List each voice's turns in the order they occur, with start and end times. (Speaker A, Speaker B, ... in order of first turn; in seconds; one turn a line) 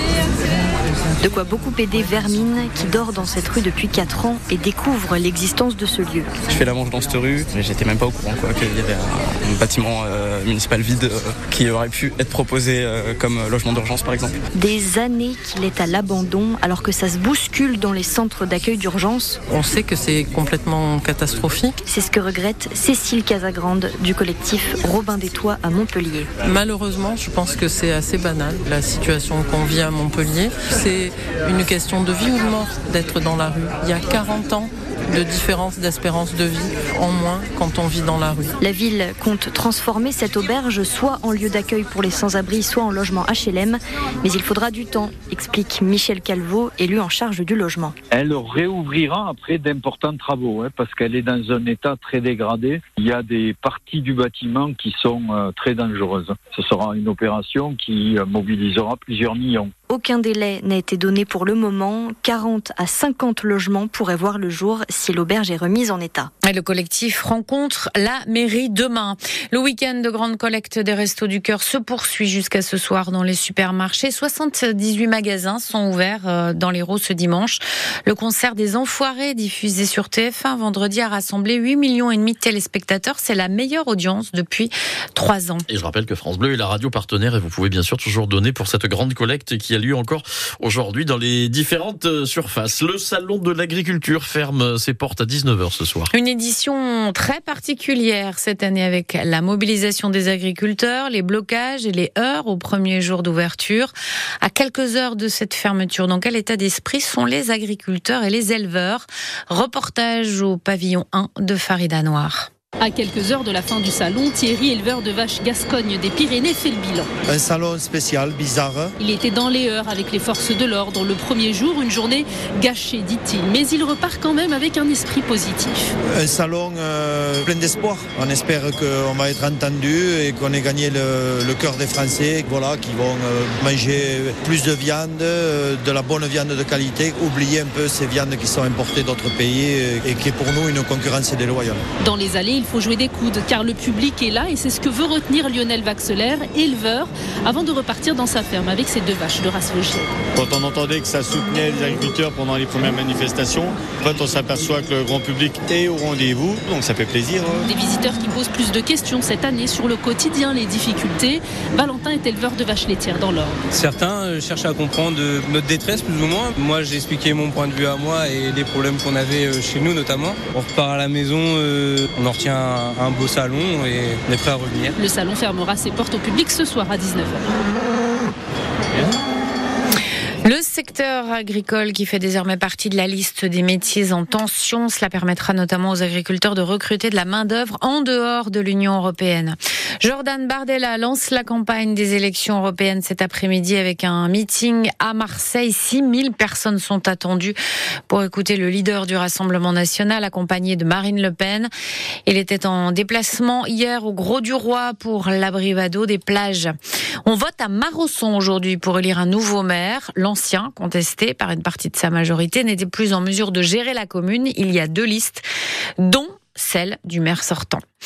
Speaker A: 1.2-6.3
Speaker B: 6.4-14.4
Speaker A: 14.5-19.4
Speaker C: 19.5-21.8
Speaker A: 21.9-26.3
Speaker C: 26.4-38.5
Speaker A: 38.6-48.0
Speaker D: 48.1-59.7
Speaker A: 59.9-66.3
Speaker E: 66.5-85.7
Speaker F: 85.7-96.1
Speaker E: 96.1-112.5
Speaker G: 112.8-117.1
Speaker H: 117.3-118.9
Speaker G: 119.0-125.9
Speaker H: 126.1-141.8
Speaker G: 142.0-150.1
Speaker I: 150.3-157.7
Speaker G: 157.7-163.6
Speaker J: 163.7-175.0
Speaker G: 175.0-177.4
Speaker E: 180.4-197.6
Speaker E: 198.1-201.7
Speaker E: 202.3-206.7
Speaker E: 207.2-215.4
Speaker E: 216.0-217.8